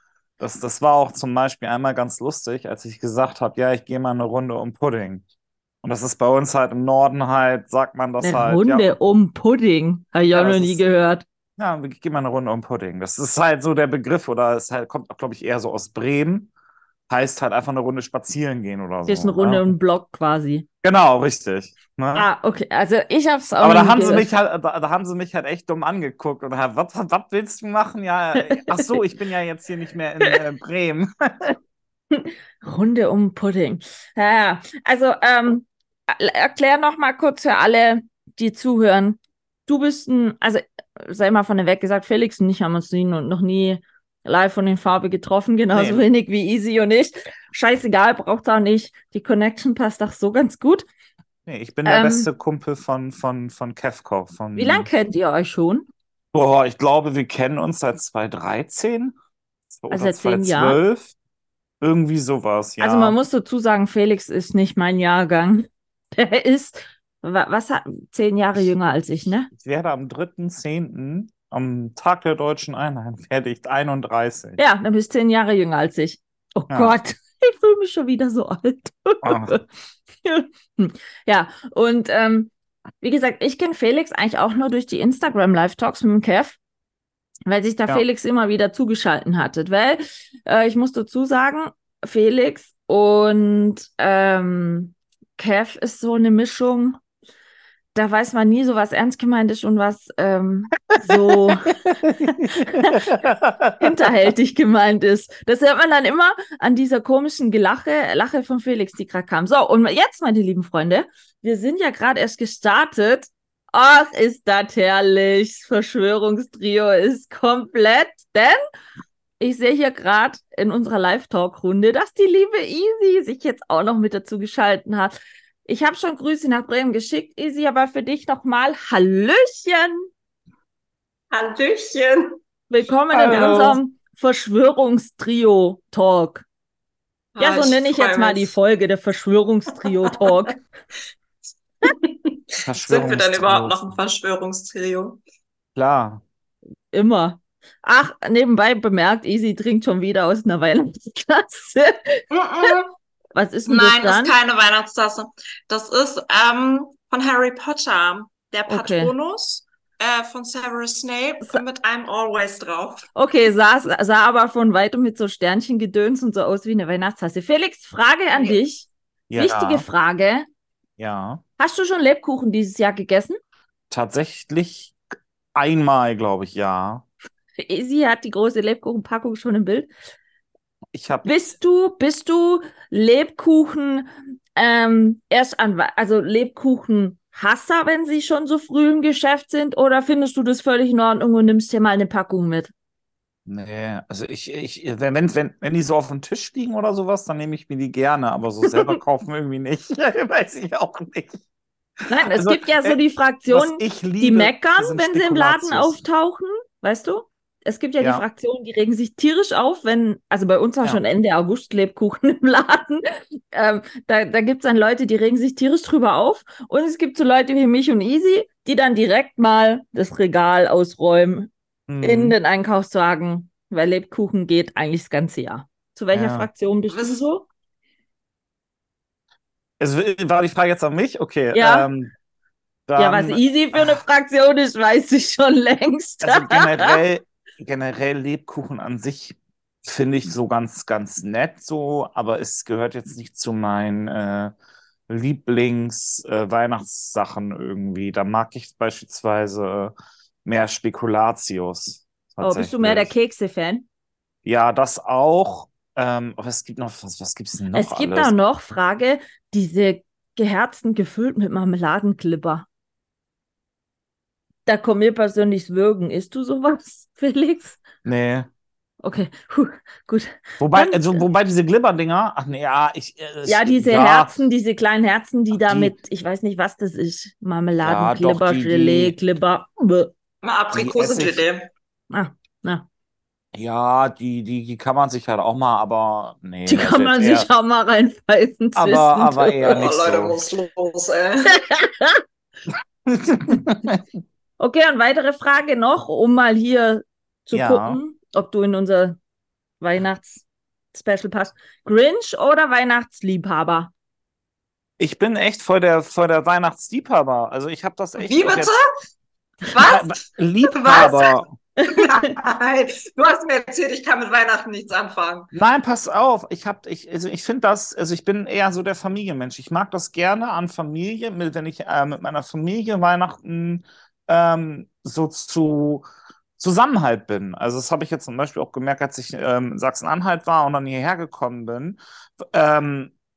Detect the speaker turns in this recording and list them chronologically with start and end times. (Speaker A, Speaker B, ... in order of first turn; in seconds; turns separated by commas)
Speaker A: 0.4-5.2, Speaker A: 5.8-8.9, Speaker B: 8.2-11.2, Speaker A: 10.3-10.8, Speaker A: 11.6-16.5, Speaker A: 17.1-19.7, Speaker B: 19.1-20.6, Speaker A: 20.8-22.3, Speaker B: 22.1-24.3, Speaker A: 23.6-31.6, Speaker B: 28.3-29.0, Speaker B: 32.1-50.9, Speaker A: 45.7-46.0, Speaker A: 51.5-54.9, Speaker B: 51.9-52.3, Speaker B: 54.5-55.9, Speaker A: 56.3-59.1, Speaker A: 59.7-61.1, Speaker B: 59.9-60.8, Speaker A: 61.8-63.2, Speaker B: 62.8-69.5, Speaker A: 69.5-74.6, Speaker B: 74.6-79.6, Speaker A: 76.7-76.9, Speaker A: 79.2-79.5, Speaker B: 80.2-86.6, Speaker B: 87.5-97.0, Speaker B: 97.9-103.1, Speaker A: 101.1-104.1, Speaker B: 103.8-118.6, Speaker B: 119.4-130.1, Speaker C: 131.3-132.4, Speaker B: 132.7-136.4, Speaker A: 133.1-133.8, Speaker C: 133.3-133.8, Speaker C: 137.3-138.5, Speaker B: 137.4-140.6, Speaker C: 139.8-140.3, Speaker C: 141.8-145.2, Speaker A: 142.6-143.8, Speaker A: 145.7-146.2, Speaker B: 146.9-152.7, Speaker C: 152.3-152.9, Speaker B: 153.3-154.3, Speaker C: 153.7-163.1, Speaker B: 158.7-159.1, Speaker B: 163.2-170.4, Speaker C: 168.3-168.6, Speaker A: 169.3-169.8, Speaker A: 171.0-171.4, Speaker B: 171.6-173.4, Speaker A: 173.9-174.9, Speaker A: 175.5-177.1, Speaker B: 177.6-179.9, Speaker A: 180.9-181.3, Speaker B: 181.2-192.7, Speaker A: 193.4-201.4, Speaker B: 202.1-221.5, Speaker A: 202.3-203.0, Speaker A: 203.5-206.0, Speaker A: 221.9-222.4, Speaker B: 222.0-227.5, Speaker A: 226.1-226.5, Speaker C: 226.9-227.2, Speaker A: 229.8-232.1, Speaker B: 231.5-231.9, Speaker A: 232.9-234.0, Speaker B: 232.9-237.0, Speaker A: 236.2-244.5, Speaker A: 245.1-249.9, Speaker A: 250.4-253.1, Speaker B: 252.4-253.8, Speaker A: 254.4-258.3, Speaker B: 257.7-262.7, Speaker B: 264.7-267.8, Speaker A: 268.0-268.5, Speaker B: 269.0-271.2, Speaker A: 270.6-274.3, Speaker B: 273.4-280.1, Speaker A: 275.5-275.9, Speaker A: 277.8-279.1, Speaker C: 280.4-281.7, Speaker A: 280.7-281.4, Speaker B: 282.1-282.9, Speaker A: 283.5-287.5, Speaker B: 286.7-289.7, Speaker A: 288.7-290.4, Speaker C: 289.6-291.6, Speaker B: 291.5-292.2, Speaker A: 293.1-294.0, Speaker B: 294.6-299.2, Speaker A: 297.5-298.0, Speaker B: 299.8-303.9, Speaker A: 305.0-308.7, Speaker C: 308.2-308.9, Speaker C: 309.7-311.3, Speaker A: 309.8-311.5, Speaker B: 311.8-312.3, Speaker C: 311.9-315.5, Speaker A: 315.5-326.0, Speaker A: 326.6-333.1